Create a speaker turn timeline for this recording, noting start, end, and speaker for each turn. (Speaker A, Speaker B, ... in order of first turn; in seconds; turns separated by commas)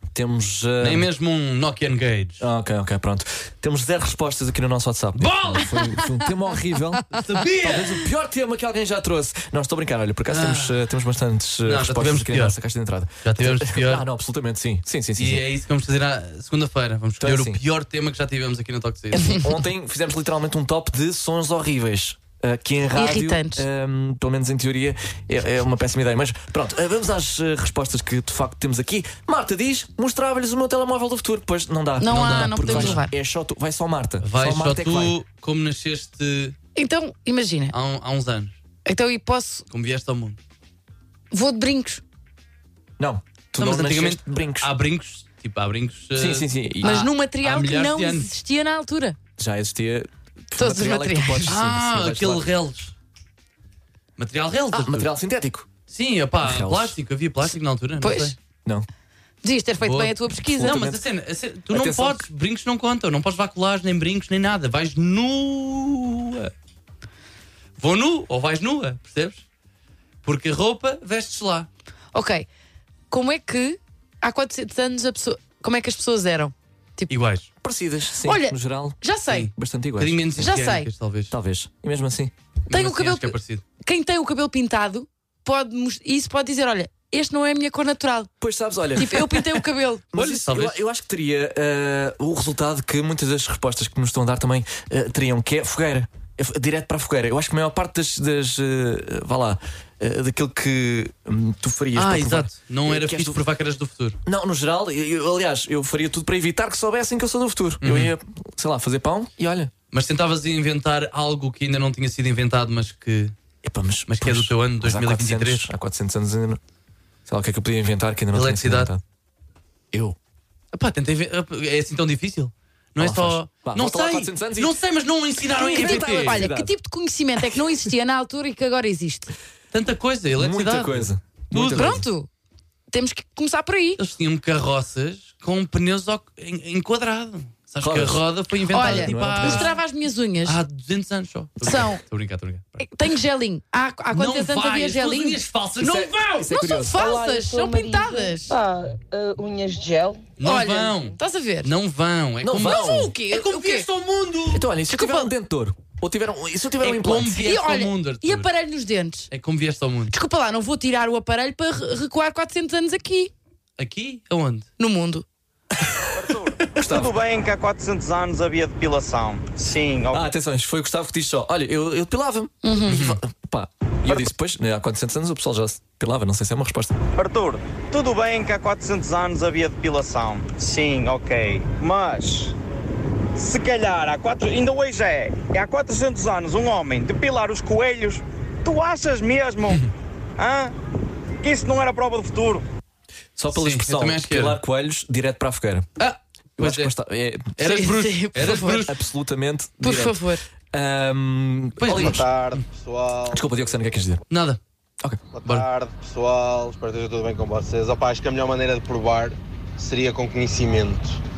Speaker A: 0.1-1.1, Speaker B: 0.8-2.4, Speaker A: 2.4-15.4, Speaker B: 5.2-5.8, Speaker B: 7.1-8.1, Speaker B: 10.3-10.8, Speaker B: 11.6-12.6, Speaker B: 13.2-14.0, Speaker B: 15.2-19.4, Speaker A: 17.2-17.6, Speaker A: 19.3-35.1, Speaker C: 22.9-23.6, Speaker C: 32.0-33.1, Speaker B: 32.1-33.0, Speaker B: 34.2-36.5, Speaker C: 36.8-37.7, Speaker B: 37.7-38.6, Speaker C: 38.9-39.7, Speaker B: 39.7-40.4, Speaker C: 41.3-42.0, Speaker A: 43.0-44.7, Speaker B: 43.6-48.3, Speaker A: 46.1-47.0, Speaker C: 46.8-49.2, Speaker A: 49.4-52.5, Speaker C: 50.5-51.6, Speaker B: 51.5-52.9, Speaker B: 54.2-55.1, Speaker A: 54.7-55.7, Speaker B: 55.9-58.3, Speaker A: 56.4-56.9, Speaker C: 58.0-58.3, Speaker C: 59.4-60.8, Speaker B: 59.8-66.5, Speaker A: 60.4-61.0, Speaker A: 61.7-62.2, Speaker B: 67.8-69.4, Speaker B: 70.2-71.7, Speaker C: 72.1-72.5, Speaker C: 73.1-77.1, Speaker B: 77.1-77.5, Speaker A: 77.6-79.0, Speaker C: 78.2-79.5, Speaker B: 79.3-81.3, Speaker A: 79.5-80.2, Speaker C: 80.4-80.9, Speaker A: 81.3-82.3, Speaker B: 82.7-83.6, Speaker C: 82.7-88.3, Speaker A: 88.4-89.2, Speaker C: 89.0-90.1, Speaker A: 90.1-103.4, Speaker B: 90.1-90.8, Speaker B: 102.0-104.2, Speaker A: 104.2-109.7, Speaker B: 107.8-108.1, Speaker B: 109.9-113.3, Speaker A: 113.6-116.6, Speaker B: 114.1-115.7, Speaker A: 117.3-119.0, Speaker B: 118.3-118.9, Speaker A: 119.9-120.2, Speaker B: 120.7-126.5, Speaker A: 123.0-124.8, Speaker A: 125.5-126.7, Speaker C: 125.6-129.3, Speaker B: 129.7-132.0, Speaker A: 130.3-132.1, Speaker C: 131.7-132.3, Speaker C: 132.9-134.0, Speaker B: 134.0-139.8, Speaker A: 137.8-139.7, Speaker C: 138.7-140.6, Speaker B: 140.4-142.8, Speaker C: 141.6-142.0, Speaker C: 142.8-148.6, Speaker B: 144.1-146.4, Speaker A: 145.8-147.1, Speaker D: 146.9-150.4, Speaker B: 150.4-154.6, Speaker C: 150.4-151.7, Speaker A: 152.4-153.1, Speaker C: 152.6-153.9, Speaker A: 154.5-157.3, Speaker C: 154.9-155.3, Speaker B: 156.8-158.5, Speaker C: 157.4-159.3, Speaker B: 159.3-160.1, Speaker C: 160.1-163.3, Speaker B: 163.8-164.7, Speaker C: 164.8-165.2, Speaker A: 165.8-167.1, Speaker E: 166.1-170.2, Speaker A: 170.1-176.9, Speaker C: 172.6-173.0, Speaker B: 172.9-173.2, Speaker E: 177.1-182.5, Speaker E: 183.3-189.8, Speaker E: 190.4-190.7, Speaker E: 191.4-192.6, Speaker A: 193.4-195.9, Speaker B: 193.5-194.6, Speaker B: 196.0-196.9, Speaker A: 196.6-197.9, Speaker B: 197.6-198.9, Speaker C: 197.6-198.9, Speaker A: 198.9-200.2, Speaker C: 199.8-200.4, Speaker A: 200.7-202.2, Speaker B: 201.8-202.6, Speaker F: 201.9-204.0, Speaker A: 203.3-204.2, Speaker B: 204.3-204.6, Speaker F: 205.3-211.2